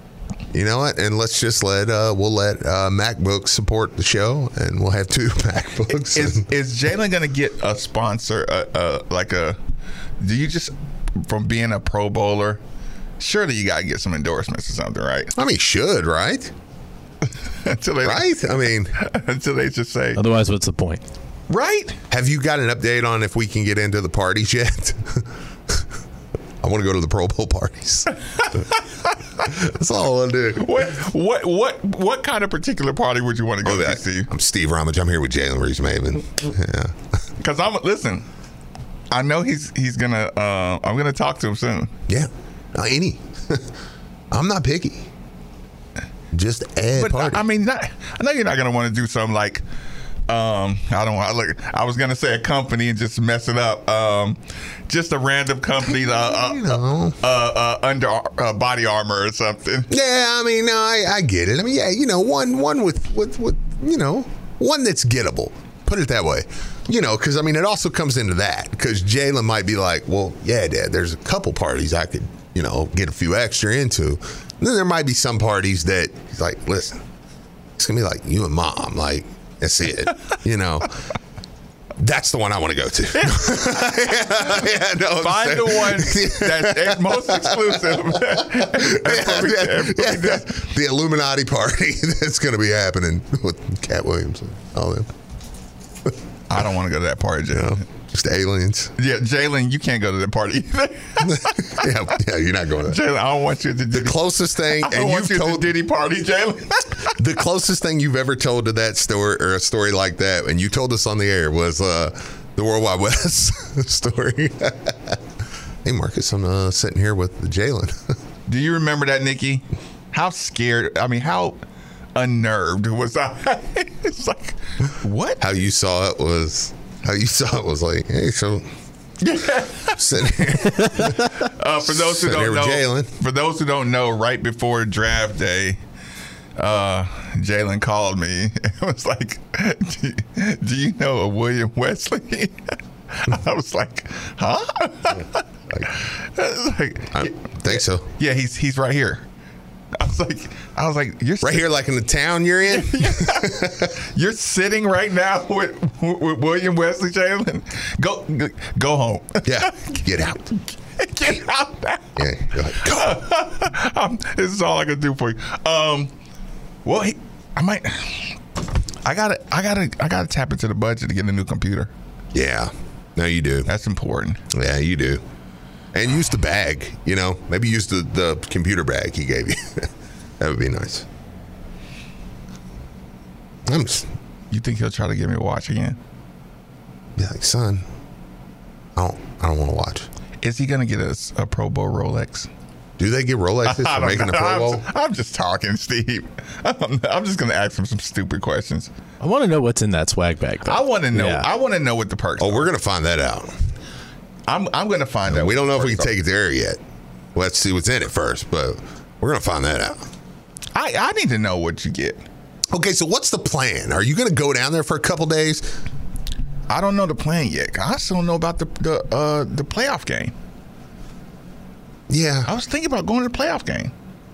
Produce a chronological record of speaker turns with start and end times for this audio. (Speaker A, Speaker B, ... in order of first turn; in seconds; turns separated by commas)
Speaker A: 0.5-6.5, Speaker B: 5.9-9.6, Speaker B: 10.2-12.6, Speaker B: 13.2-15.3, Speaker A: 15.3-16.5, Speaker B: 17.6-20.2, Speaker A: 18.0-18.9, Speaker C: 20.1-21.0, Speaker B: 21.5-22.0, Speaker A: 22.1-25.8, Speaker A: 26.6-28.7, Speaker B: 28.4-28.8, Speaker A: 29.4-30.9, Speaker B: 30.6-34.3, Speaker A: 33.6-36.9, Speaker B: 37.4-38.3, Speaker B: 39.1-41.9, Speaker A: 42.1-43.7, Speaker A: 44.3-45.1, Speaker A: 46.3-47.4, Speaker B: 46.9-49.6, Speaker B: 50.3-59.9, Speaker A: 56.1-57.2, Speaker A: 59.9-77.0, Speaker A: 77.8-81.1, Speaker A: 82.0-95.1, Speaker B: 83.1-90.5, Speaker B: 96.5-97.8, Speaker A: 97.5-98.9, Speaker B: 99.0-101.9, Speaker A: 101.2-103.0, Speaker B: 102.8-107.2, Speaker A: 103.9-105.8, Speaker A: 107.1-115.2, Speaker A: 115.8-118.2, Speaker B: 118.5-121.6, Speaker B: 122.2-125.4, Speaker A: 125.4-128.7, Speaker B: 129.2-135.8, Speaker A: 129.9-133.1, Speaker B: 136.6-149.2, Speaker A: 147.1-148.1, Speaker B: 149.9-151.7, Speaker A: 151.4-153.9, Speaker B: 152.7-166.1, Speaker A: 159.4-160.5, Speaker A: 162.2-163.2, Speaker B: 166.8-168.4, Speaker B: 169.0-171.9, Speaker A: 172.3-173.7, Speaker B: 173.7-174.4, Speaker A: 174.5-175.2, Speaker A: 175.9-181.1, Speaker A: 183.7-184.1, Speaker B: 184.5-186.0, Speaker A: 187.2-187.8, Speaker A: 188.9-190.1, Speaker B: 190.4-192.5, Speaker A: 193.0-194.8, Speaker B: 193.6-198.9, Speaker C: 199.2-201.5, Speaker B: 200.6-202.7, Speaker A: 202.4-203.5, Speaker B: 204.5-206.1, Speaker A: 205.3-206.8, Speaker A: 207.3-210.1, Speaker B: 210.7-212.2, Speaker A: 212.7-215.8, Speaker B: 216.7-220.3, Speaker A: 222.1-222.5, Speaker B: 222.5-223.9